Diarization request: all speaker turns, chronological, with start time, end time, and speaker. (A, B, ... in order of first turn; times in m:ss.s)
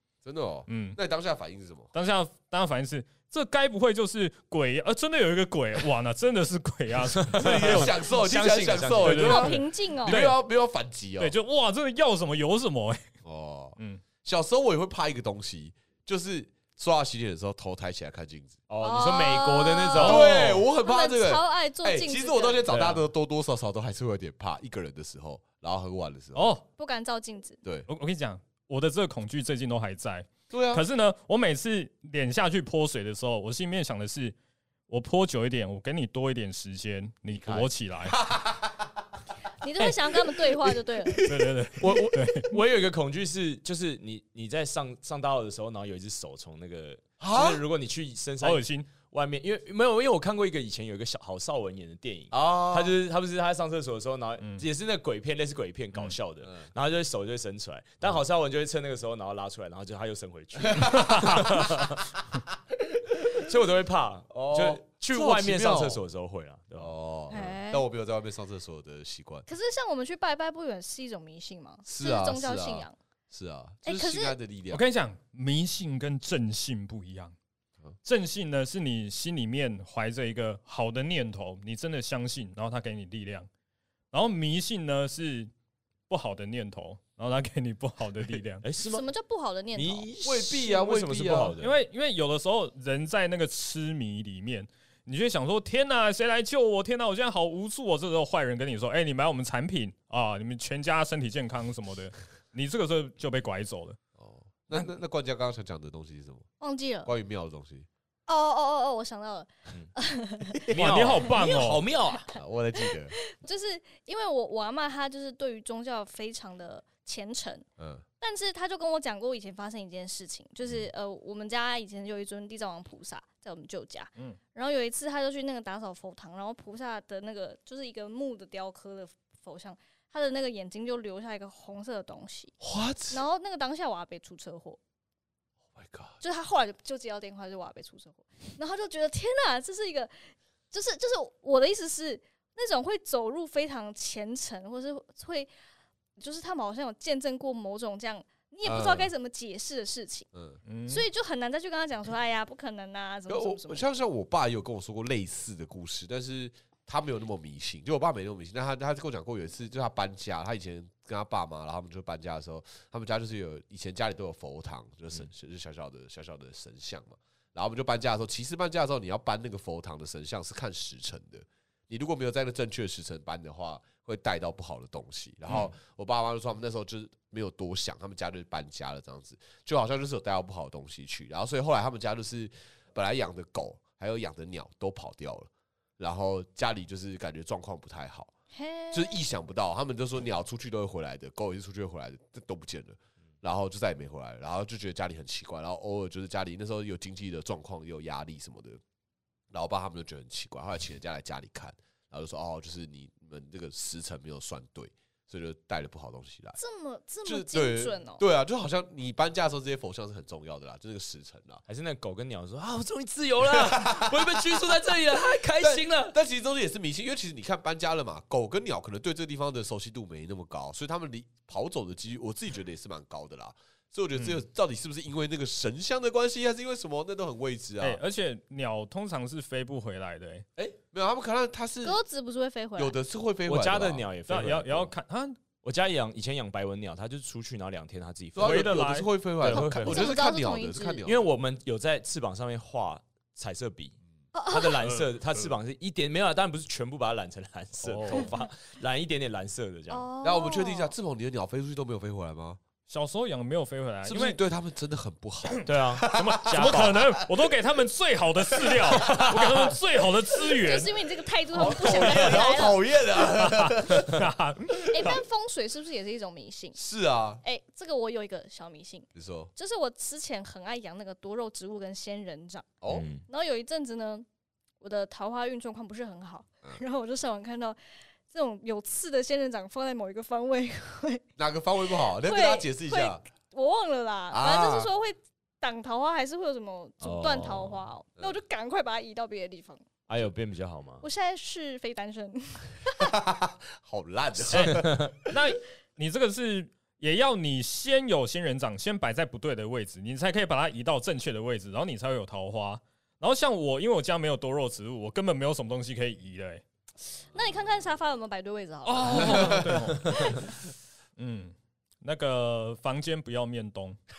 0:00.2-0:01.9 A
0:00.7-0:01.0 B
0:01.9-0:08.1 B
0:07.1-0:09.5 C
0:07.4-0:11.4 A
0:08.7-0:10.4 B
0:09.2-0:10.2 D
0:11.2-0:13.0 B
0:13.2-0:18.6 A
0:13.8-0:14.0 B
0:18.7-0:20.6 C
0:18.8-0:22.6 D
0:20.0-0:26.5 A
0:20.0-0:20.6 B
0:22.7-0:23.0 C
0:26.4-0:26.6 B
0:26.8-0:27.6 D
0:27.6-0:27.9 A
0:27.9-0:34.4 B
0:30.5-0:30.8 A
0:34.9-0:38.2 B
0:37.3-0:38.9 A
0:39.6-0:41.2 D
0:41.0-0:41.6 A
0:41.2-0:42.5 B
0:41.8-1:02.0 C
0:47.2-0:47.6 A
0:48.4-0:48.9 B
0:52.3-0:53.0 A
1:00.6-1:01.9 A
1:01.0-1:01.4 B
1:03.2-1:06.9 C
1:04.3-1:06.0 A
1:06.8-1:09.5 A
1:07.3-1:07.8 D
1:09.5-1:13.0 D
1:11.8-1:14.8 A
1:13.8-1:14.4 D
1:14.7-1:17.4 B
1:18.0-1:23.5 B
1:24.1-1:25.5 B
1:26.1-1:28.6 B
1:28.6-1:29.0 C
1:28.9-1:30.1 D
1:29.7-1:31.8 C
1:30.2-1:31.6 A
1:31.6-1:44.0 B
1:44.2-1:46.5 A
1:46.6-1:47.1 D
1:47.0-1:47.9 A
1:48.3-1:50.7 D
1:50.6-1:52.3 C
1:50.7-1:51.8 B
1:51.2-1:52.2 D
1:52.3-1:53.1 A
1:53.1-1:57.6 D
1:57.8-1:58.0 A
1:58.2-2:12.5 D
2:12.6-2:13.2 A
2:13.1-2:14.8 D
2:15.8-2:16.2 A
2:16.2-2:25.5 D
2:26.2-2:30.3 D
2:28.6-2:29.1 A
2:30.3-2:30.6 A
2:30.6-2:31.0 B
2:30.9-2:33.9 D
2:33.3-3:08.3 A
3:08.5-3:09.2 D
3:08.9-3:18.8 A
3:19.5-3:26.6 A
3:26.6-3:28.2 D
3:27.2-3:31.6 A
3:31.7-3:36.2 C
3:33.4-3:34.6 A
3:35.6-3:48.0 A
3:44.2-3:44.4 B
3:47.8-3:50.5 B
3:50.6-3:52.0 A
3:51.8-3:53.0 D
3:52.8-3:54.0 A
3:53.5-3:54.9 C
3:54.3-3:55.4 B
3:55.6-3:58.8 C
3:58.4-4:01.3 A
3:58.4-3:59.1 B
3:59.4-4:00.2 C
3:59.5-4:01.0 D
4:01.0-4:10.1 C
4:04.3-4:04.8 D
4:04.8-4:05.1 B
4:07.8-4:08.3 B
4:09.9-4:10.9 D
4:10.2-4:12.6 A
4:12.9-4:14.4 B
4:14.0-4:17.5 A
4:15.5-4:20.9 B
4:15.7-4:17.1 C
4:18.5-4:19.5 A
4:19.0-4:19.7 C
4:20.6-4:22.8 D
4:21.5-4:24.2 A
4:21.8-4:22.1 B
4:23.2-4:25.2 B
4:24.9-4:26.8 D
4:26.8-4:27.4 A
4:27.4-4:32.7 D
4:29.1-4:29.5 A
4:32.8-4:33.1 A
4:32.9-4:33.2 C
4:33.3-4:34.2 D
4:34.8-4:37.8 D
4:38.3-4:41.2 D
4:41.4-4:43.2 A
4:41.8-4:49.8 D
4:44.3-4:44.9 A
4:47.0-4:47.8 C
4:50.1-4:51.0 C
4:51.0-4:53.1 D
4:53.0-4:55.3 A
4:54.5-5:06.6 B
4:54.5-4:55.1 C
5:07.2-5:09.7 D
5:08.8-5:10.5 B
5:09.2-5:10.0 A
5:11.2-5:14.0 B